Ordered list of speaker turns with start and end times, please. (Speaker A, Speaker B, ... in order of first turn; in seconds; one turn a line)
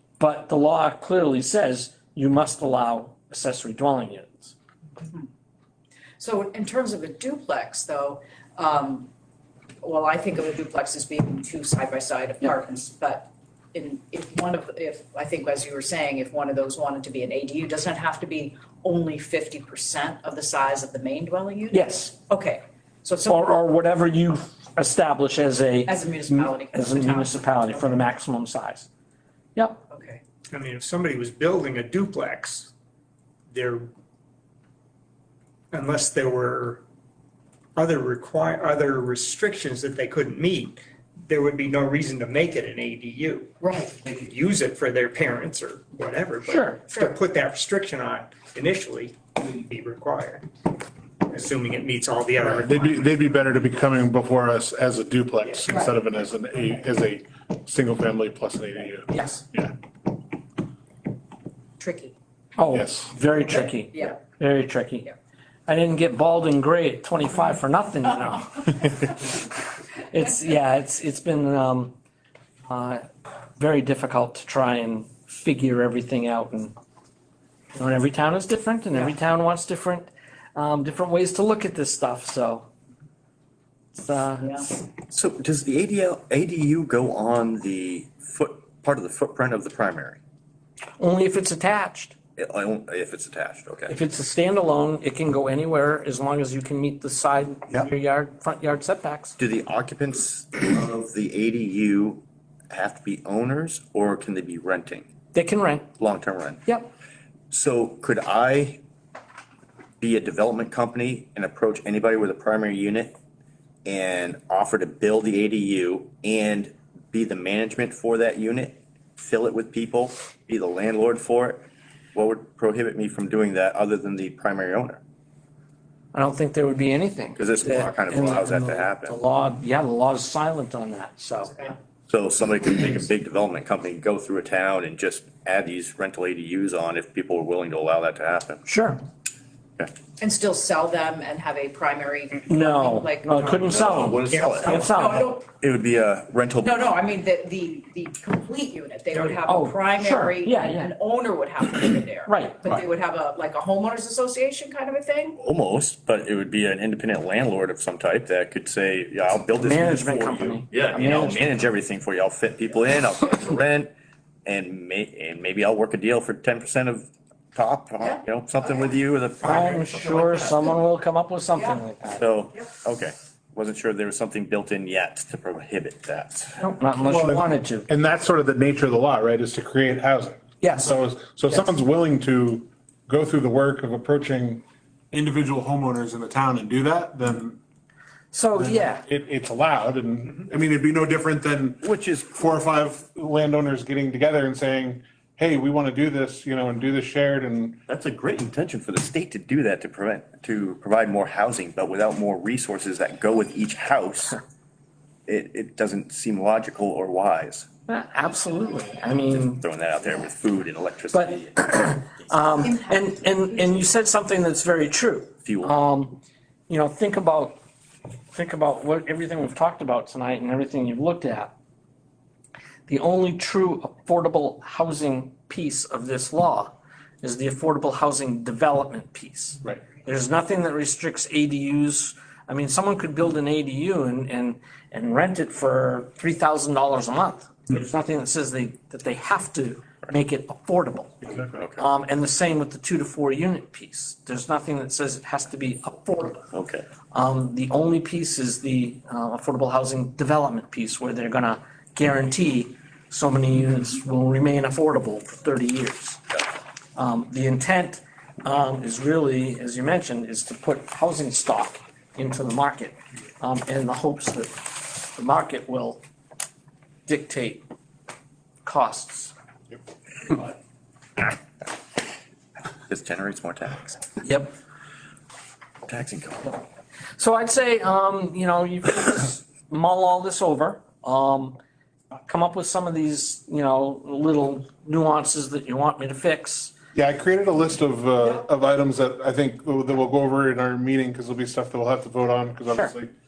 Speaker A: 0.2-4.5
Speaker B: 5.0-5.3
Speaker B: 6.2-9.1
Speaker B: 9.8-23.5
Speaker A: 21.7-22.1
Speaker A: 23.3-28.9
Speaker B: 25.9-27.9
Speaker A: 29.5-29.8
Speaker B: 29.9-30.2
Speaker C: 30.5-32.7
Speaker C: 33.5-33.9
Speaker C: 35.7-36.8
Speaker C: 37.8-50.4
Speaker B: 43.6-44.0
Speaker A: 46.5-46.8
Speaker C: 51.3-53.0
Speaker D: 52.4-59.7
Speaker A: 59.1-59.4
Speaker B: 61.8-62.1
Speaker A: 62.6-65.1
Speaker D: 62.7-63.1
Speaker B: 63.9-64.2
Speaker A: 65.7-69.5
Speaker A: 70.0-71.9
Speaker A: 72.7-73.0
Speaker A: 73.6-76.7
Speaker A: 77.7-82.7
Speaker A: 83.9-84.7
Speaker E: 85.1-90.2
Speaker A: 91.0-92.1
Speaker E: 92.4-94.0
Speaker A: 93.9-99.3
Speaker E: 99.4-105.1
Speaker A: 105.3-105.9
Speaker E: 106.0-106.6
Speaker E: 107.5-108.8
Speaker E: 110.0-113.2
Speaker E: 113.8-125.0
Speaker A: 126.1-131.7
Speaker E: 127.3-129.2
Speaker E: 132.1-138.6
Speaker A: 138.6-139.0
Speaker B: 140.2-145.5
Speaker A: 142.5-145.3
Speaker E: 143.6-144.9
Speaker C: 144.3-144.6
Speaker E: 145.6-146.8
Speaker B: 146.6-155.4
Speaker A: 149.2-150.9
Speaker A: 152.2-152.7
Speaker E: 155.4-163.9
Speaker A: 159.5-161.5
Speaker E: 164.4-170.4
Speaker A: 169.4-172.2
Speaker E: 172.2-176.6
Speaker A: 176.6-177.9
Speaker D: 177.0-187.6
Speaker A: 180.6-181.0
Speaker A: 188.3-189.0
Speaker D: 188.6-197.8
Speaker E: 191.8-192.3
Speaker E: 197.9-204.4
Speaker E: 205.3-207.7
Speaker A: 207.9-209.6
Speaker E: 209.3-211.9
Speaker A: 211.1-217.6
Speaker E: 215.4-215.7
Speaker A: 218.3-221.5
Speaker A: 222.9-246.5
Speaker E: 241.5-241.8
Speaker E: 246.5-246.8
Speaker A: 247.1-256.3
Speaker A: 256.9-266.0
Speaker A: 267.1-267.6
Speaker A: 268.6-269.3
Speaker E: 272.9-274.1
Speaker A: 274.2-274.5
Speaker E: 275.9-276.6
Speaker A: 277.2-281.6
Speaker A: 282.2-286.7
Speaker D: 286.9-293.1